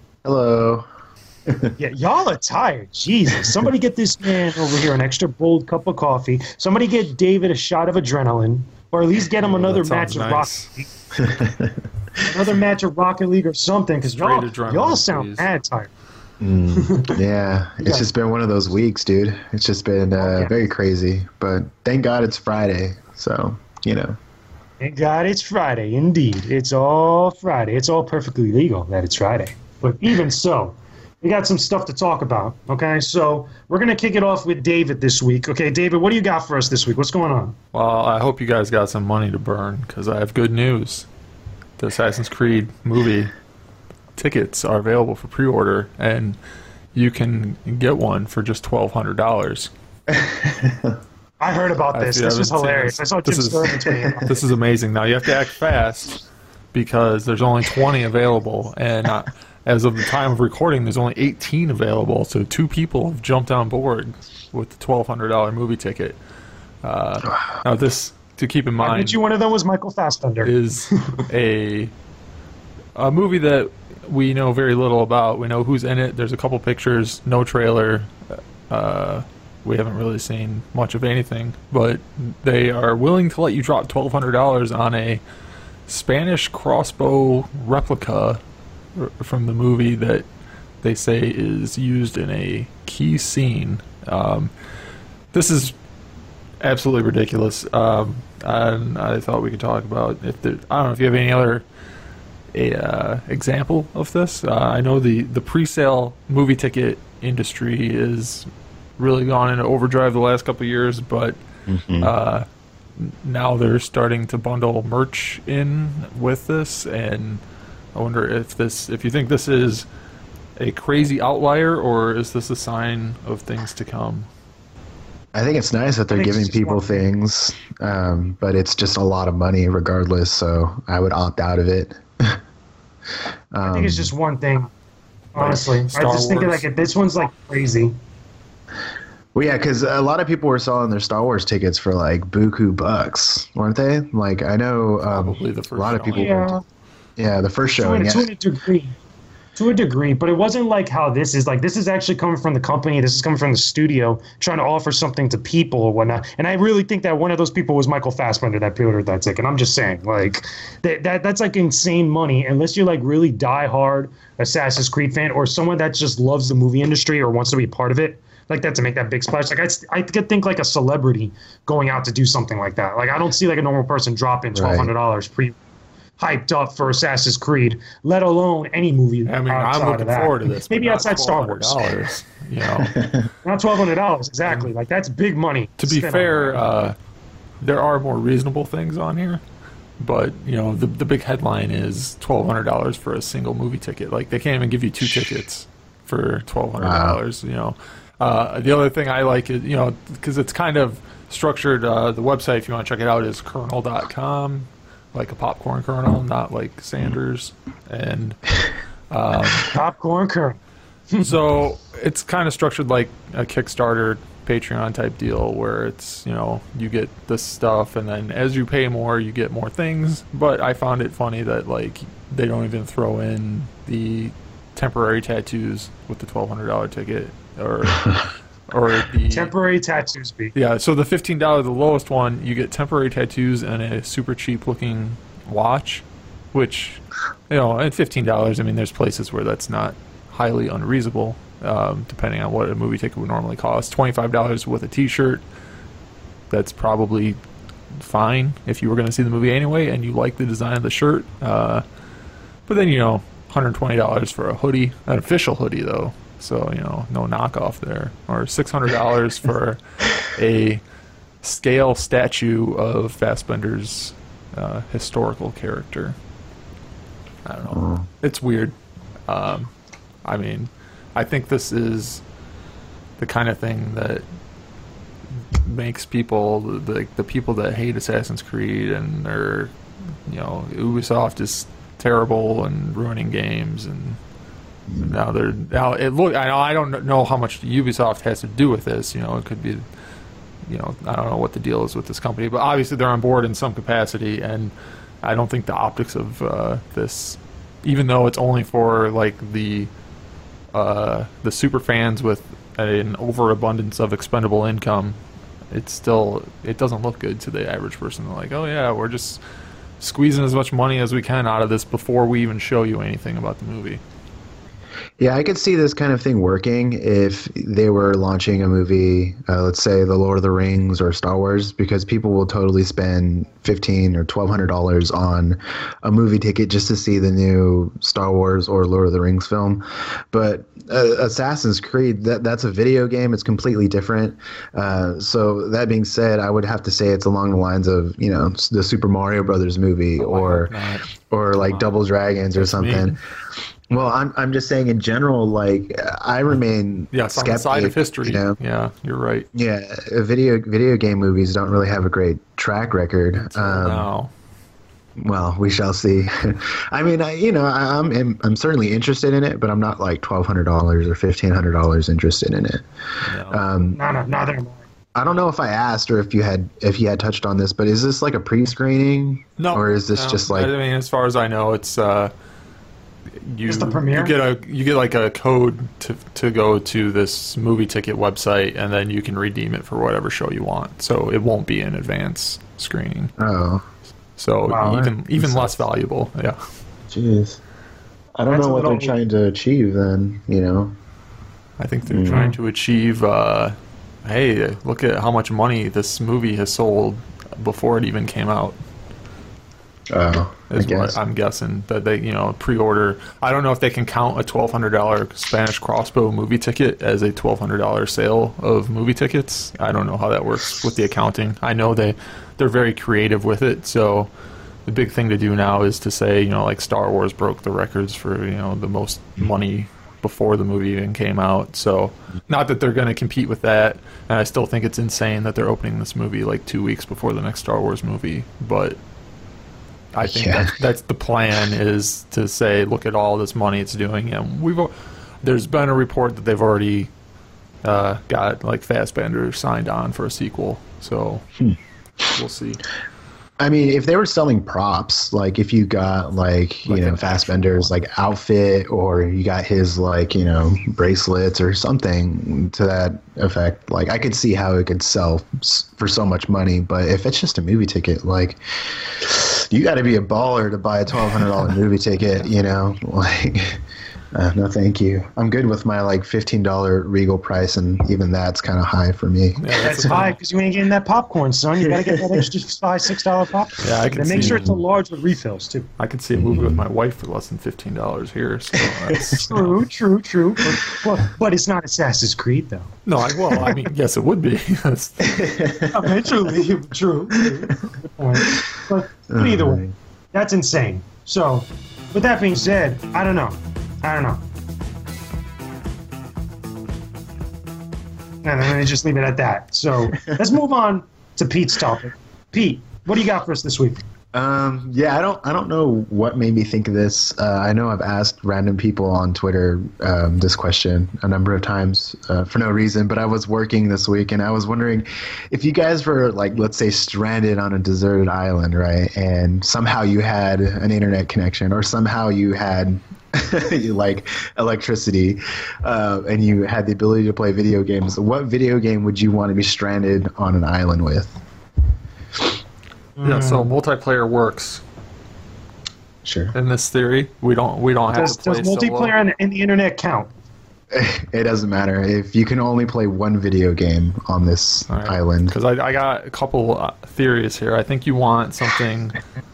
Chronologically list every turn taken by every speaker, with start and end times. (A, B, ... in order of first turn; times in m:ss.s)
0:00.2-0:00.9 A
0:01.5-0:01.8 A
0:01.8-0:10.9 B
0:09.5-0:10.8 C
0:11.1-0:11.8 A
0:12.2-0:15.9 B
0:14.0-0:15.5 C
0:16.4-0:24.2 A
0:16.8-0:17.2 B
0:17.8-0:18.1 B
0:20.2-0:20.6 B
0:24.8-0:37.6 B
0:37.7-0:41.1 C
0:41.8-0:43.3 C
0:44.2-0:46.4 C
0:46.9-0:49.7 C
0:50.1-0:51.0 A
0:51.4-0:54.4 B
0:51.9-0:56.2 C
0:56.7-1:06.2 C
1:06.8-1:09.2 C
1:08.8-1:10.5 B
1:10.4-1:11.9 C
1:13.0-1:18.1 C
1:18.7-1:25.2 C
1:25.9-1:28.4 C
1:29.0-1:30.3 C
1:30.8-1:34.5 C
1:35.3-1:35.7 C
1:36.6-1:41.6 C
1:42.5-1:51.4 C
1:51.7-1:52.1 A
1:52.0-1:57.4 C
1:58.0-1:59.9 C
2:00.6-2:04.3 C
2:05.3-2:12.4 A
2:06.1-2:07.0 B
2:13.5-2:14.1 A
2:13.6-2:14.7 B
2:15.4-2:18.0 B
2:15.4-2:16.6 C
2:19.4-2:26.6 A
2:25.0-2:26.4 C
2:26.1-2:26.6 B
2:27.2-2:28.3 A
2:27.8-2:29.0 B
2:29.6-2:55.6 B
2:54.5-2:54.9 A
2:56.2-3:01.8 B
2:59.3-3:03.0 C
3:02.8-3:03.3 A
3:03.4-3:06.6 B
3:05.8-3:07.0 C
3:07.6-3:09.4 C
3:10.0-3:28.6 C
3:15.0-3:15.4 A
3:16.8-3:17.2 A
3:29.1-3:29.7 C
3:29.7-3:30.6 B
3:31.2-3:49.5 C
3:49.3-3:50.5 B
3:50.6-4:05.4 C
4:06.5-4:07.4 C
4:08.0-4:11.8 C
4:12.7-4:20.8 C
4:21.4-4:26.2 C
4:27.4-4:28.7 C
4:27.7-4:28.1 A
4:29.3-4:29.7 C
4:30.2-4:32.2 C
4:33.2-4:34.2 C
4:35.5-4:39.7 C
4:40.3-4:44.2 C
4:44.9-4:45.2 A
4:45.0-4:49.8 C
4:50.7-4:54.7 C
4:55.2-4:59.9 C
5:00.7-5:05.2 C
5:05.7-5:09.4 C
5:10.0-5:14.0 C
5:15.2-5:40.7 A
5:40.2-5:41.9 C
5:41.3-5:43.2 A
5:42.5-5:43.2 C
5:43.9-5:48.6 A
5:47.1-5:49.5 C
5:49.5-5:54.1 A
5:53.4-5:54.3 C
5:55.2-6:02.8 A
6:03.2-6:03.6 C
6:03.5-6:04.0 A
6:04.0-6:04.8 B
6:05.2-6:10.7 A
6:09.6-6:12.3 C
6:13.4-6:23.3 C
6:13.7-6:14.3 B
6:23.4-6:23.8 A
6:24.4-6:26.6 C
6:24.7-6:25.0 B
6:24.8-6:25.8 A
6:27.1-6:27.6 A
6:28.4-6:30.9 A
6:28.5-6:29.2 B
6:31.8-6:38.8 C
6:32.1-6:32.5 A
6:32.3-6:32.6 B
6:40.1-6:41.2 A
6:40.7-6:54.3 C
6:54.9-7:09.0 C
7:10.1-7:14.9 C
7:10.2-7:10.8 A
7:15.4-7:17.1 C
7:17.8-7:21.5 C
7:22.3-7:22.8 C
7:23.6-7:43.8 A
7:26.9-7:28.0 C
7:44.3-7:50.3 A
7:49.6-7:50.4 C
7:49.8-7:55.9 B
7:53.8-7:54.7 C
7:54.4-7:54.8 A
7:56.0-7:59.8 C
7:56.4-7:56.8 A
7:59.1-7:59.4 A
7:59.4-8:02.9 B
8:03.1-8:05.4 C
8:03.5-8:03.8 B
8:05.3-8:06.3 A
8:05.9-8:09.8 B
8:09.3-8:09.9 A
8:10.3-8:14.4 B
8:18.4-8:24.0 B
8:24.3-8:51.4 A
8:53.2-8:53.7 B
8:53.2-8:54.8 C
8:56.2-8:56.6 A
8:56.5-8:59.2 C
8:58.1-9:00.3 B
9:00.9-9:05.6 A
9:04.9-9:09.2 C